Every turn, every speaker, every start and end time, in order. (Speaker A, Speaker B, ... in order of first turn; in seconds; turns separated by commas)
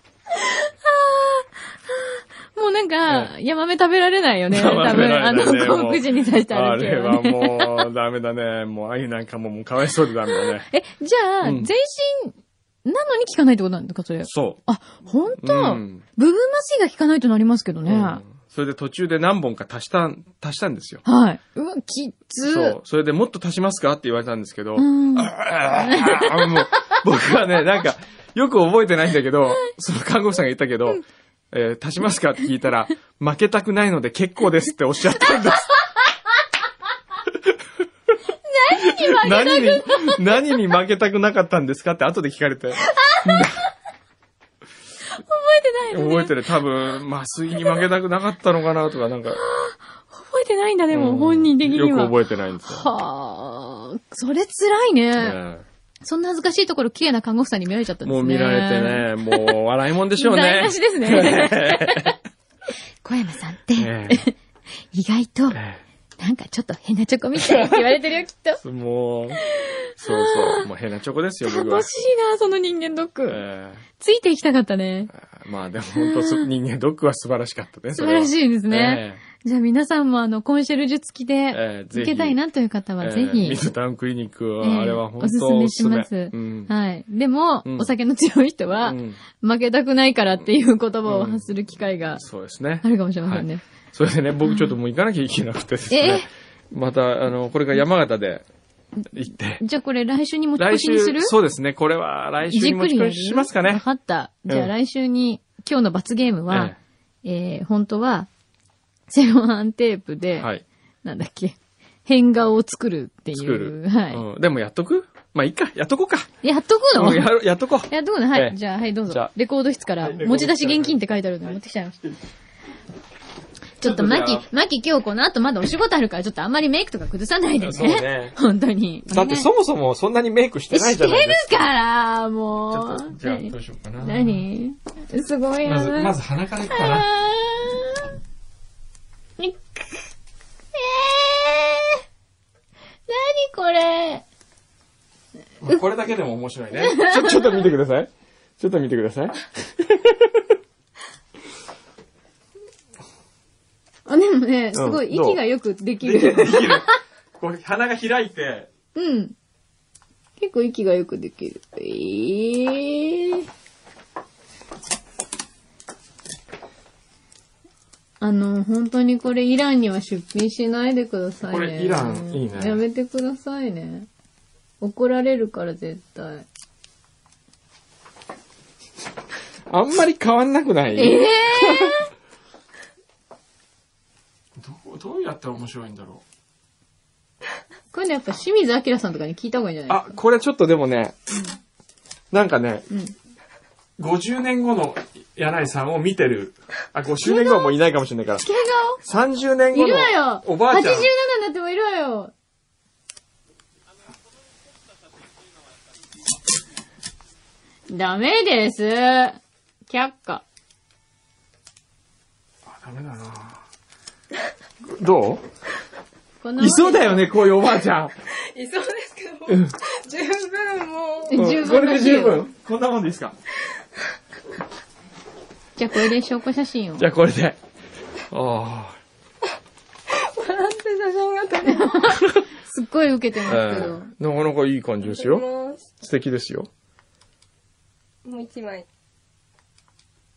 Speaker A: 0.4-7.9, Speaker B: 4.5-10.7, Speaker A: 10.4-18.2, Speaker B: 11.4-11.7, Speaker B: 14.2-14.6, Speaker B: 15.4-16.0, Speaker B: 17.9-21.0, Speaker A: 21.0-22.8, Speaker B: 22.4-35.7, Speaker A: 24.8-26.6, Speaker B: 37.3-37.5, Speaker A: 38.5-40.2, Speaker B: 38.8-43.6, Speaker A: 42.9-43.5, Speaker A: 45.2-46.4, Speaker B: 45.9-49.4, Speaker A: 49.3-52.2, Speaker B: 50.9-52.9, Speaker A: 52.7-55.4, Speaker B: 55.2-55.6, Speaker A: 56.0-59.6, Speaker B: 58.0-62.1, Speaker A: 60.2-62.1, Speaker A: 63.0-64.3, Speaker B: 63.7-64.2, Speaker A: 64.9-65.6, Speaker B: 65.5-65.8, Speaker A: 66.2-68.6, Speaker B: 67.3-68.0, Speaker B: 68.6-69.4, Speaker A: 69.5-70.7, Speaker B: 70.0-71.9, Speaker A: 71.4-73.4, Speaker B: 73.3-73.8, Speaker A: 74.0-75.1, Speaker B: 75.1-79.2, Speaker A: 75.9-76.5, Speaker A: 77.9-83.6, Speaker B: 81.5-82.4, Speaker B: 83.0-86.7, Speaker A: 84.6-92.2, Speaker B: 87.6-87.9, Speaker B: 88.8-89.2, Speaker B: 91.1-91.5, Speaker B: 92.2-98.4, Speaker A: 92.8-93.6, Speaker A: 94.5-94.7, Speaker A: 95.9-96.3, Speaker B: 99.1-99.6, Speaker A: 99.6-101.3, Speaker B: 100.6-103.8, Speaker A: 102.5-108.3, Speaker B: 106.5-106.8, Speaker A: 109.1-110.5, Speaker B: 110.4-110.6, Speaker A: 111.0-114.2, Speaker B: 113.3-116.3, Speaker A: 116.4-117.3, Speaker B: 116.9-119.3, Speaker A: 117.9-122.0, Speaker B: 120.0-122.2, Speaker A: 123.8-129.5, Speaker B: 123.8-124.5, Speaker B: 127.6-128.4, Speaker B: 129.1-131.7, Speaker A: 130.7-136.1, Speaker B: 132.7-134.4, Speaker B: 135.6-137.1, Speaker A: 136.7-138.0, Speaker A: 139.4-140.0, Speaker A: 140.7-142.0, Speaker A: 143.1-144.2, Speaker B: 145.6-150.5, Speaker A: 146.8-147.4, Speaker A: 154.1-156.9, Speaker B: 154.7-155.4, Speaker B: 156.0-158.7, Speaker A: 158.9-159.3, Speaker A: 160.4-163.5, Speaker A: 168.2-174.1, Speaker B: 171.5-172.8, Speaker A: 174.8-176.4, Speaker B: 179.7-182.0, Speaker A: 180.9-182.0, Speaker B: 184.6-186.2, Speaker A: 187.9-190.1, Speaker B: 189.9-191.2, Speaker B: 192.3-192.9, Speaker B: 194.0-198.4, Speaker A: 197.2-197.7, Speaker A: 198.4-199.0, Speaker B: 199.0-201.1, Speaker A: 199.7-202.3, Speaker A: 207.9-210.4, Speaker B: 212.7-213.6, Speaker B: 214.8-215.4, Speaker A: 216.4-217.2, Speaker B: 216.6-218.1, Speaker C: 218.4-221.3, Speaker A: 221.3-222.4, Speaker B: 221.3-223.3, Speaker A: 225.8-227.1, Speaker B: 227.0-227.6, Speaker B: 228.3-229.0, Speaker C: 230.1-232.2, Speaker A: 231.6-234.1, Speaker B: 233.4-235.4, Speaker C: 235.0-235.9, Speaker B: 236.0-236.7, Speaker C: 238.2-238.9